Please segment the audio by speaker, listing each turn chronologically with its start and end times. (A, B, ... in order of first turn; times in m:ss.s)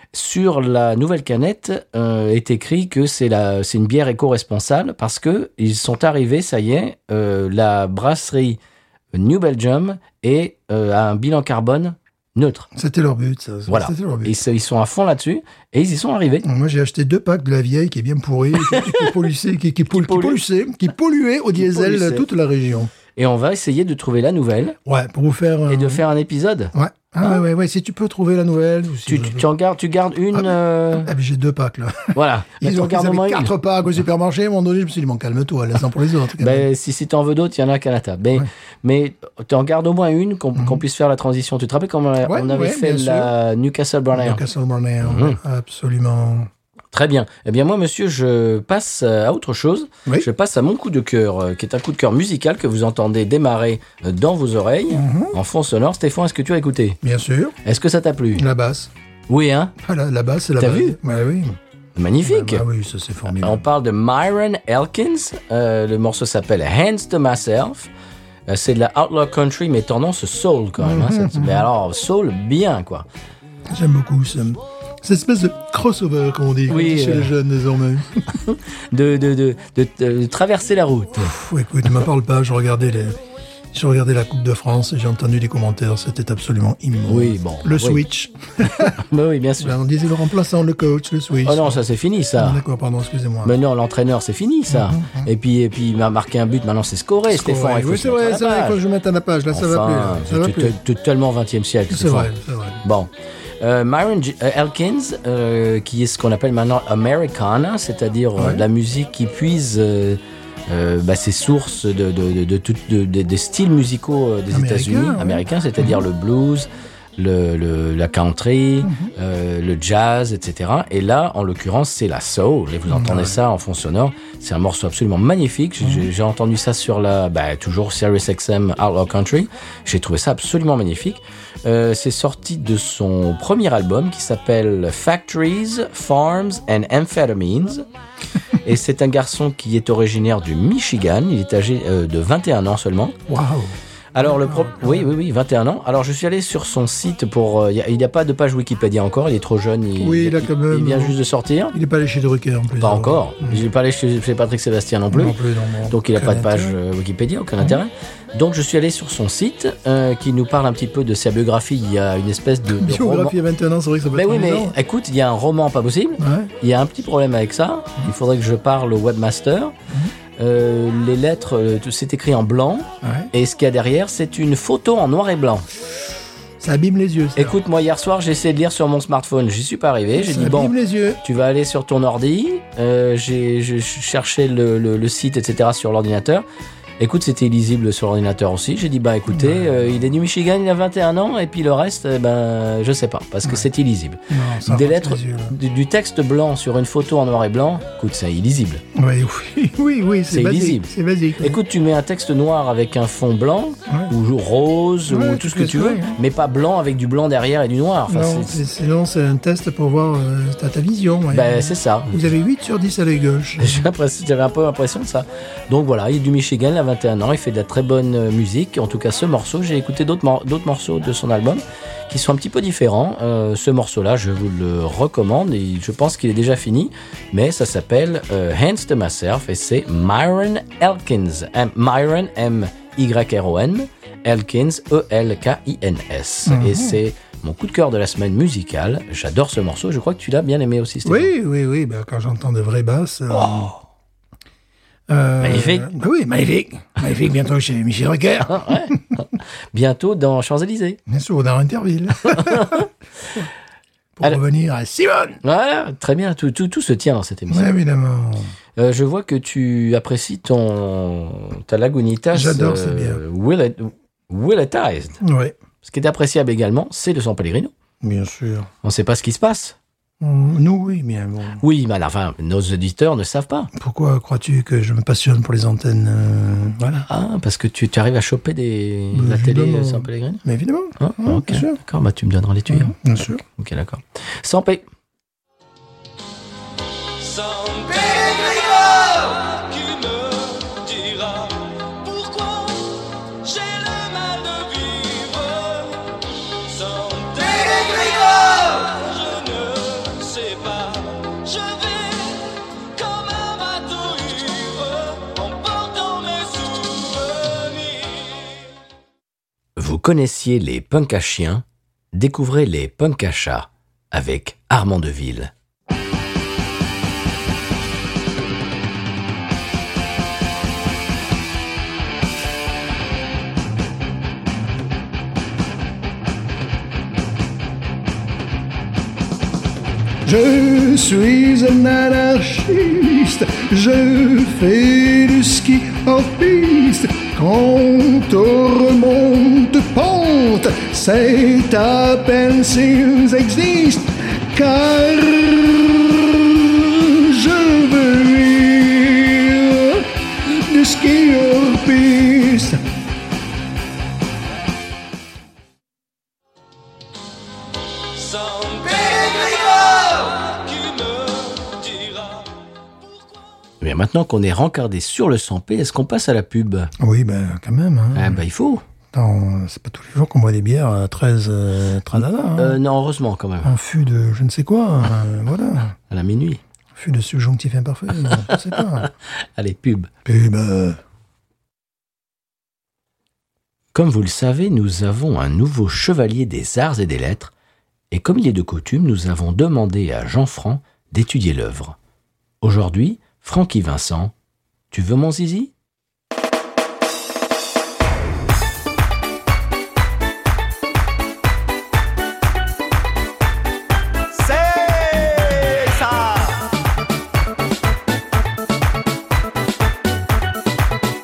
0:00.1-0:08.6 A
0:09.1-0:12.7 A
0:12.8-0:14.4 B
0:13.7-0:16.5 A
0:16.4-0:22.9 B
0:18.6-0:19.1 A
0:19.9-0:20.4 A
0:21.6-0:22.2 A
0:23.2-0:24.8 A
0:24.8-0:26.0 B
0:25.7-0:26.7 A
0:26.7-0:29.5 B
0:29.1-0:31.1 A
0:30.3-0:36.7 B
0:32.1-0:33.5 A
0:36.4-0:44.4 A
0:40.6-0:40.8 B
0:42.2-0:43.3 B
0:44.1-0:46.5 B
0:45.0-0:45.4 A
0:46.9-0:57.0 A
0:54.9-0:55.4 B
0:57.0-0:57.6 B
0:57.6-0:58.4 A
0:58.4-0:58.9 B
0:59.3-0:59.7 A
0:59.8-1:01.6 B
1:00.6-1:01.0 A
1:02.0-1:02.6 A
1:02.2-1:03.6 B
1:03.3-1:07.9 A
1:08.5-1:13.1 A
1:10.8-1:11.7 B
1:13.7-1:18.3 B
1:16.7-1:17.3 A
1:18.3-1:21.3 A
1:21.2-1:23.2 B
1:23.7-1:29.0 B
1:27.1-1:28.0 A
1:28.6-1:29.7 A
1:29.6-1:31.8 B
1:31.4-1:32.6 A
1:32.4-1:33.6 B
1:33.4-1:38.8 A
1:34.7-1:35.3 B
1:37.3-1:40.8 B
1:39.5-1:42.3 A
1:41.9-1:42.8 B
1:42.8-2:17.9 A
1:48.4-1:48.7 B
1:54.5-1:56.0 B
1:58.8-1:59.1 B
2:02.9-2:03.4 B
2:18.6-2:23.2 A
2:23.3-2:25.1 B
2:24.1-2:31.8 A
2:30.0-2:31.2 B
2:31.7-2:33.6 B
2:32.8-2:35.4 A
2:35.1-2:36.8 B
2:35.9-2:43.4 A
2:42.7-2:44.8 B
2:44.1-2:49.8 A
2:46.2-2:46.5 B
2:50.4-2:55.7 A
2:53.0-2:53.3 B
2:56.6-2:57.6 B
2:57.4-3:06.4 A
3:00.2-3:01.2 B
3:07.0-3:18.8 A
3:09.3-3:09.9 B
3:14.3-3:15.5 B
3:19.0-3:21.6 B
3:20.3-3:28.6 A
3:25.1-3:26.2 B
3:28.1-3:33.9 B
3:31.3-3:32.3 A
3:33.6-4:01.3 A
3:56.5-3:57.0 B
4:01.0-4:03.8 B
4:03.4-4:03.7 A
4:05.1-4:09.2 B
4:05.4-4:05.9 A
4:08.5-4:11.0 A
4:11.1-4:13.5 B
4:12.3-4:12.8 A
4:14.2-4:15.4 B
4:15.4-4:17.7 A
4:17.5-4:18.5 B
4:18.8-4:25.2 A
4:22.3-4:23.2 B
4:25.2-4:25.6 B
4:25.8-4:27.7 A
4:28.0-4:28.7 B
4:28.8-4:29.8 A
4:30.2-4:31.6 B
4:31.6-4:33.7 A
4:33.8-4:37.1 B
4:37.1-4:40.4 A
4:39.1-4:41.8 B
4:41.0-4:44.8 A
4:42.7-4:43.4 B
4:47.2-5:02.4 C
5:03.0-5:08.5 C
5:09.8-5:15.5 A
5:30.2-5:52.8 B
5:58.2-6:02.4 C
6:03.8-6:06.9 A
6:07.0-6:08.4 B
6:08.2-6:08.8 A
6:09.1-6:12.8 B
6:12.6-6:13.7 A
6:13.6-6:16.0 B
6:16.1-6:16.6 A
6:17.0-6:19.1 B
6:18.1-6:19.0 A
6:19.6-6:20.1 A
6:20.2-6:21.0 B
6:23.9-6:27.5 A
6:28.1-6:32.0 A
6:32.6-6:34.3 A
6:34.9-6:35.7 A
6:44.3-6:46.7 D